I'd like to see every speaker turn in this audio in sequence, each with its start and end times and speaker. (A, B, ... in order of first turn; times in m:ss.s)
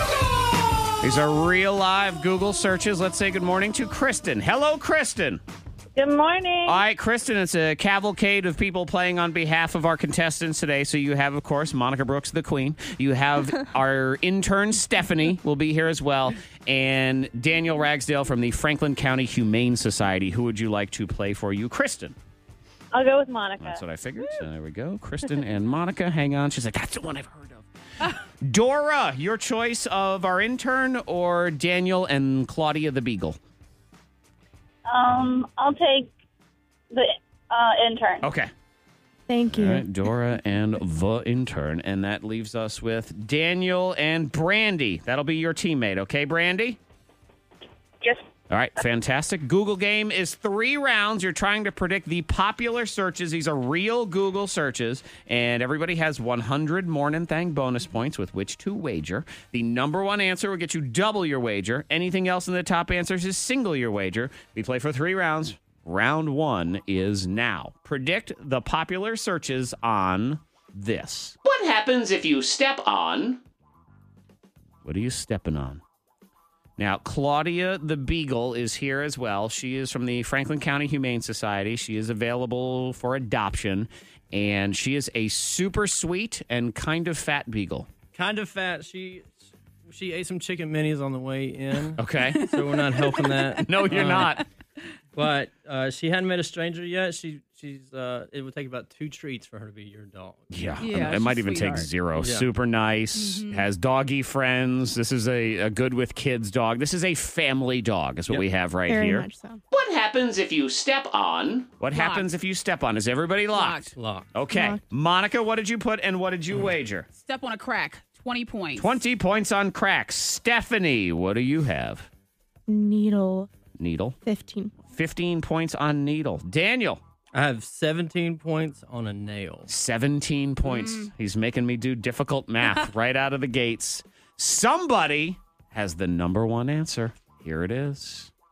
0:01.0-0:05.4 A
0:06.0-0:06.8 B
0:06.6-0:22.2 A
0:23.0-0:23.7 B
0:23.6-0:27.6 A
0:28.4-0:33.4 A
0:34.9-0:36.1 B
0:36.9-0:38.3 B
0:38.2-0:38.5 A
0:39.3-0:39.9 C
0:39.5-0:46.8 A
0:48.5-1:11.4 A
1:11.4-1:13.4 D
1:14.8-1:15.8 A
1:16.8-1:27.9 A
1:28.1-1:34.4 E
1:32.0-1:32.4 A
1:32.4-1:34.4 F
1:33.7-1:34.4 A
1:35.2-1:40.5 E
1:40.5-1:49.3 A
1:40.8-1:41.9 F
1:42.2-1:42.5 E
1:43.2-1:43.7 F
1:48.9-1:49.6 C
1:49.7-1:51.8 D
1:51.8-1:57.1 A
1:51.9-1:52.3 F
1:53.5-1:53.9 F
1:54.0-1:54.4 E
1:54.5-1:54.8 C
1:57.1-1:59.0 F
1:58.8-2:02.1 A
2:02.7-2:03.5 C
2:03.8-2:04.2 A
2:04.2-2:04.8 C
2:04.8-2:07.0 A
2:07.3-2:09.7 E
2:09.7-2:18.3 A
2:10.6-2:11.1 F